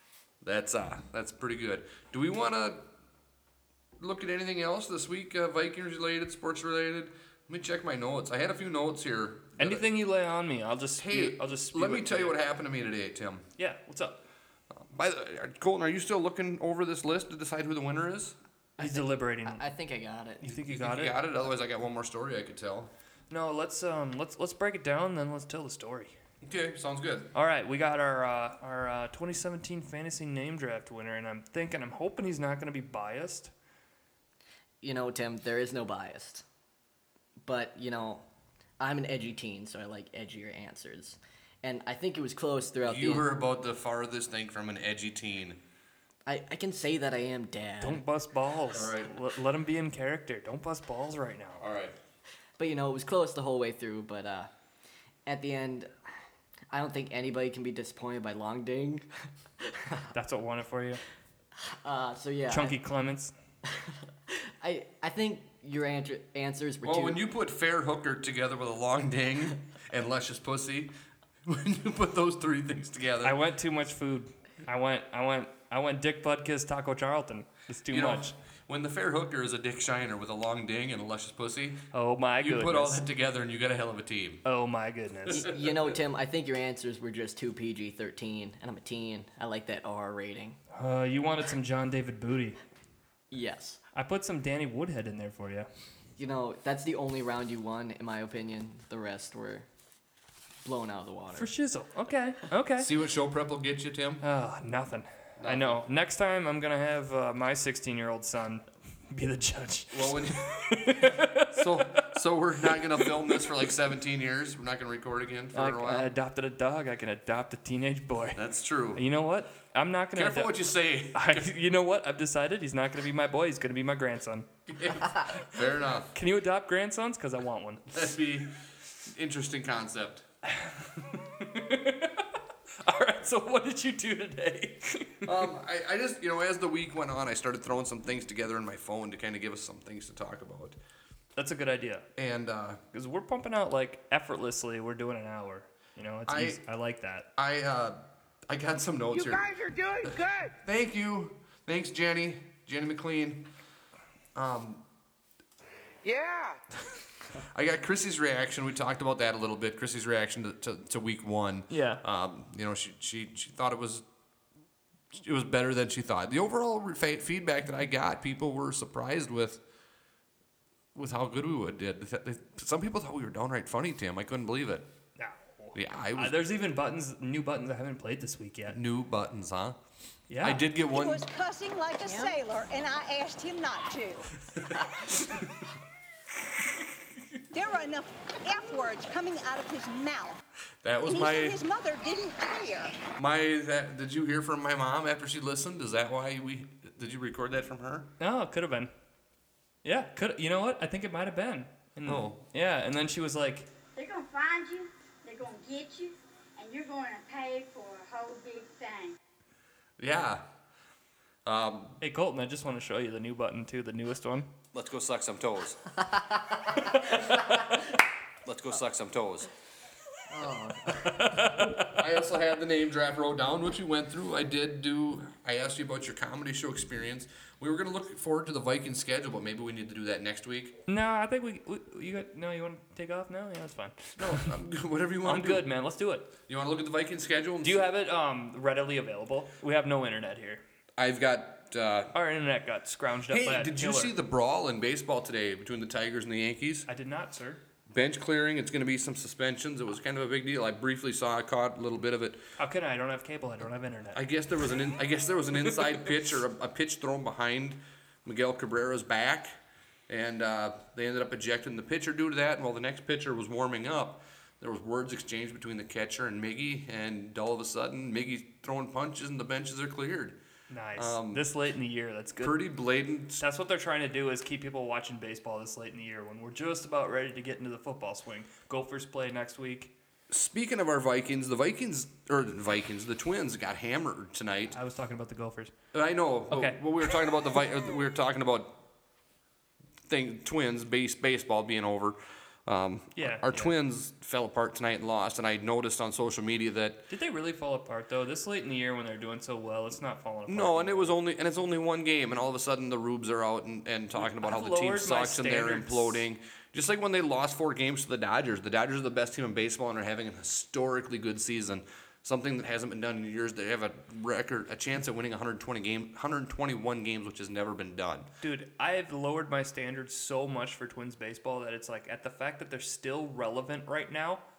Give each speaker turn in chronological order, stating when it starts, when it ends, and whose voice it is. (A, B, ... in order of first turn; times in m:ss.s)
0:00.4-0:02.8 A
0:04.0-0:09.8 A
0:09.6-0:12.4 B
0:11.0-0:13.4 A
0:13.6-0:14.2 B
0:14.7-0:18.4 A
0:18.8-0:19.6 B
0:18.8-0:20.6 C
0:20.4-0:21.2 B
0:20.7-0:22.9 A
0:23.3-0:26.1 B
0:26.4-0:27.3 A
0:27.3-0:33.5 B
0:34.8-0:36.4 C
0:37.4-0:38.2 C
0:38.8-0:43.3 C
0:42.8-0:45.6 A
0:46.2-0:48.0 C
0:47.8-0:51.6 B
0:48.7-0:49.1 A
0:51.6-0:52.0 A
0:52.6-0:54.5 C
0:55.2-0:55.9 C
0:56.7-0:59.0 C
1:00.1-1:01.0 B
1:01.7-1:02.8 C
1:02.5-1:03.3 B
1:04.6-1:07.2 C
1:06.8-1:10.9 A
1:11.4-1:13.4 A
1:13.2-1:18.3 B
1:17.9-1:21.8 A
1:21.9-1:23.0 B
1:22.4-1:24.4 A
1:24.4-1:25.5 B
1:25.3-1:30.6 C
1:30.7-1:32.6 B
1:33.3-1:33.8 C
1:33.9-1:35.7 B
1:36.2-1:39.7 C
1:40.6-1:41.5 C
1:41.3-1:42.9 B
1:42.8-1:44.2 A
1:44.2-1:52.1 B
1:45.4-1:45.8 A
1:49.9-1:56.1 A
1:52.7-1:53.1 B
1:55.5-1:58.4 B
1:58.3-1:59.0 A
1:58.9-2:00.6 B
2:00.1-2:01.5 A
2:01.1-2:04.5 B
2:04.8-2:06.1 A
2:06.1-2:08.0 B
2:07.9-2:08.5 A
2:09.0-2:10.2 A
2:10.4-2:15.3 B
2:15.2-2:20.8 A
2:21.4-2:22.0 B
2:22.2-2:22.8 A
2:22.9-2:27.3 B
2:26.3-2:26.6 A
2:27.4-2:29.4 A
2:29.1-2:30.5 D
2:30.6-2:33.5 A
2:34.3-2:34.8 A
2:36.0-2:36.6 D
2:37.5-2:44.0 A
2:41.7-2:42.0 B
2:45.1-2:49.6 A
2:50.9-2:54.9 A
2:55.2-2:58.8 B
2:55.7-2:56.5 A
2:58.7-2:59.8 A
3:00.3-3:00.6 B
3:00.4-3:01.2 A
3:00.9-3:04.3 E
3:02.0-3:02.3 C
3:07.5-3:10.4 E
3:10.8-3:11.6 A
3:11.0-3:13.0 E
3:13.2-3:18.1 A
3:18.2-3:18.9 B
3:19.8-3:23.7 B
3:22.0-3:22.4 A
3:23.9-3:29.2 F
3:30.0-3:30.4 A
3:31.4-3:32.0 A
3:32.0-3:34.5 B
3:34.7-3:35.8 A
3:36.3-3:37.0 C
3:38.4-3:39.5 A
3:40.3-3:41.5 C
3:40.9-3:42.0 B
3:41.8-3:50.8 A
3:50.9-3:54.6 B
3:54.2-3:55.7 A
3:55.2-3:56.3 B
3:56.5-3:57.8 A
3:57.6-4:00.6 B
4:01.0-4:02.1 A
4:02.1-4:04.1 B
4:03.3-4:06.9 A
4:06.9-4:07.6 B
4:07.9-4:12.4 A
4:12.6-4:14.2 B
4:14.1-4:19.6 A
4:20.1-4:30.4 A
4:30.7-4:32.6 B
4:30.9-4:31.4 A
4:32.4-4:33.4 A
4:33.4-4:39.9 B
4:40.3-4:44.8 A
4:44.7-4:45.7 B
4:45.9-4:48.8 A
4:46.5-4:46.8 B
4:50.0-4:57.0 A
4:53.2-4:53.7 B
4:57.1-5:01.2 B
5:00.5-5:18.3 A
5:04.2-5:06.2 B
5:18.4-5:24.4 B